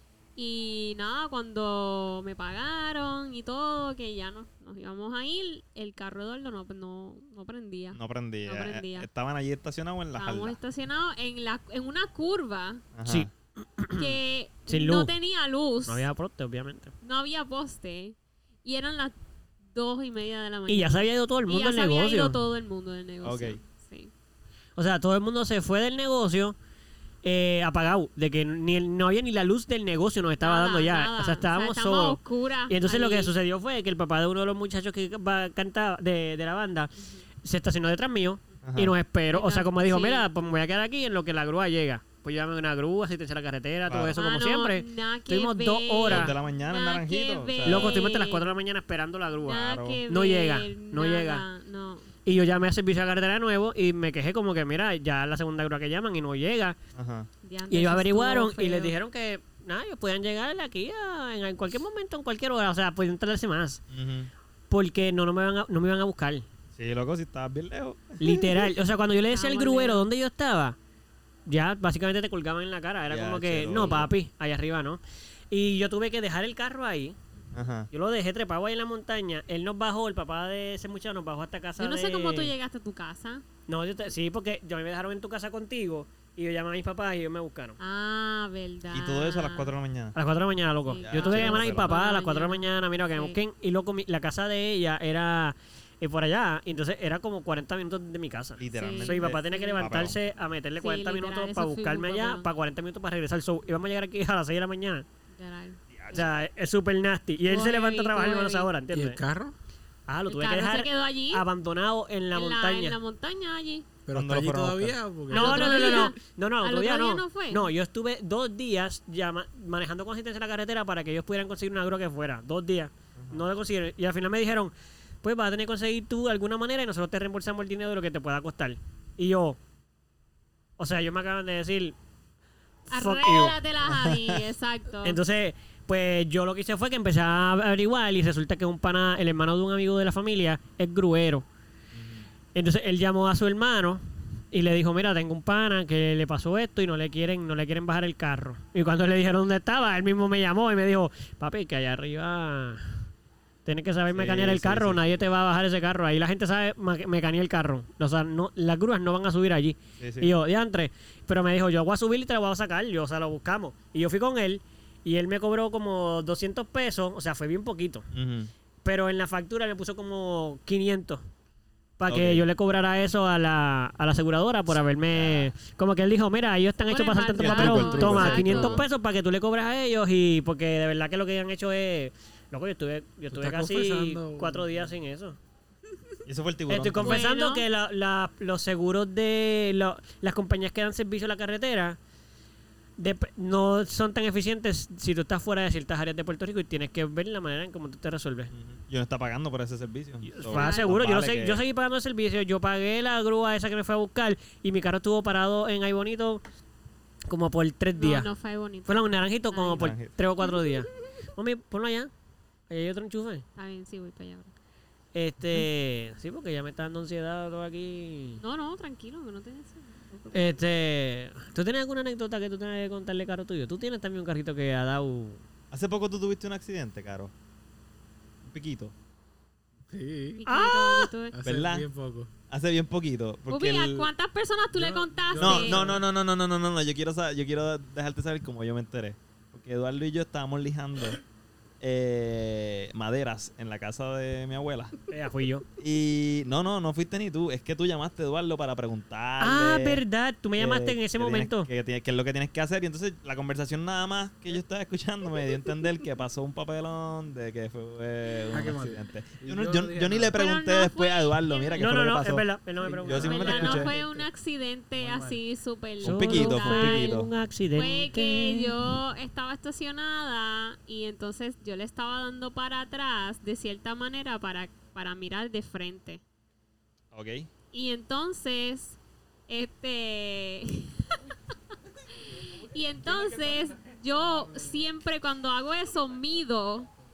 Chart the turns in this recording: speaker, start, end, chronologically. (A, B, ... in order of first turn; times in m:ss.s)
0:00.4-0:09.1 A
0:07.9-0:10.6 B
0:10.2-0:12.8 A
0:13.0-0:13.3 B
0:13.0-0:14.1 C
0:14.0-0:16.0 A
0:14.7-0:15.1 C
0:15.9-0:16.9 C
0:17.0-0:19.1 A
0:19.7-0:24.1 A
0:20.7-0:22.4 C
0:23.2-0:23.6 B
0:24.8-0:26.6 C
0:27.2-0:36.9 C
0:30.4-0:33.3 A
0:37.0-0:37.2 A
0:37.4-0:46.3 C
0:38.6-0:39.0 B
0:39.3-0:40.2 A
0:43.9-0:44.2 B
0:44.1-0:48.5 A
0:46.0-0:48.0 B
0:47.6-0:51.4 C
0:49.4-0:52.1 A
0:49.6-0:50.0 B
0:52.2-0:56.8 C
0:57.0-0:57.3 B
0:57.4-0:58.9 A
0:57.7-1:03.8 C
1:03.9-1:04.3 B
1:04.7-1:06.4 C
1:06.7-1:08.4 B
1:08.2-1:10.8 C
1:09.3-1:10.1 A
1:11.5-1:15.0 C
1:13.1-1:14.1 B
1:15.5-1:17.2 C
1:17.5-1:17.9 B
1:17.9-1:22.5 C
1:21.8-1:23.4 A
1:23.7-1:27.8 C
1:27.8-1:29.7 A
1:28.9-1:30.2 B
1:30.1-1:45.0 C
1:30.8-1:33.4 A
1:31.0-1:31.9 B
1:38.6-1:40.2 B
1:38.7-1:39.9 A
1:40.8-1:42.5 A
1:45.3-1:46.3 A
1:45.9-1:46.3 B
1:46.1-1:49.2 C
1:47.5-1:48.7 A
1:48.9-1:49.5 D
1:50.1-1:53.0 C
1:50.3-1:51.4 A
1:52.3-1:53.9 A
1:54.0-1:56.0 D
1:54.1-1:55.0 B
1:55.3-1:57.7 A
1:55.3-2:04.7 C
2:03.2-2:03.4 B
2:05.2-2:09.6 C
2:10.8-2:12.0 C
2:12.9-2:13.6 C
2:12.9-2:15.2 A
2:13.9-2:14.3 B
2:15.0-2:21.4 C
2:21.9-2:22.3 B
2:22.6-2:33.0 C
2:33.6-2:48.1 C
2:34.1-2:35.2 B
2:40.0-2:40.3 B
2:48.1-2:48.5 B
2:48.8-2:51.3 C
2:52.0-3:05.4 C
2:52.1-2:52.4 B
2:55.1-2:55.5 B
2:56.9-2:58.8 A
2:57.4-2:58.9 B
3:03.3-3:05.0 D
3:06.2-3:07.2 B
3:06.7-3:12.0 C
3:07.0-3:07.7 A
3:13.0-3:18.5 C
3:18.5-3:21.6 B
3:20.2-3:26.4 C
3:20.4-3:20.9 A
3:27.3-3:28.3 C
3:28.0-3:30.8 A
3:28.9-3:32.1 C
3:29.8-3:30.1 B
3:32.7-3:33.4 C
3:33.6-3:34.5 A
3:35.1-3:38.4 C
3:38.4-3:40.6 A
3:40.3-3:45.4 C
3:45.7-3:47.3 B
3:48.4-3:48.9 B
3:49.9-3:50.4 D
3:50.4-3:51.4 A
3:50.4-3:51.1 C
3:51.3-3:52.3 D
3:51.4-3:51.9 B
3:52.5-3:54.1 B
3:53.5-3:56.0 A
3:54.7-3:56.0 D
3:55.4-4:01.2 B
4:01.8-4:04.9 B
4:05.1-4:05.6 C
4:05.8-4:10.0 B
4:09.4-4:11.7 C
4:10.6-4:22.4 B
4:18.5-4:20.4 D
4:20.3-4:21.9 A
4:21.8-4:23.9 C
4:22.8-4:24.3 D
4:23.0-4:23.9 B
4:23.1-4:27.2 A
4:25.0-4:25.4 D
4:26.0-4:27.3 B
4:26.0-4:29.0 C
4:27.7-4:36.2 A
4:37.1-4:37.5 B
4:37.7-4:41.2 A
4:42.2-4:46.9 A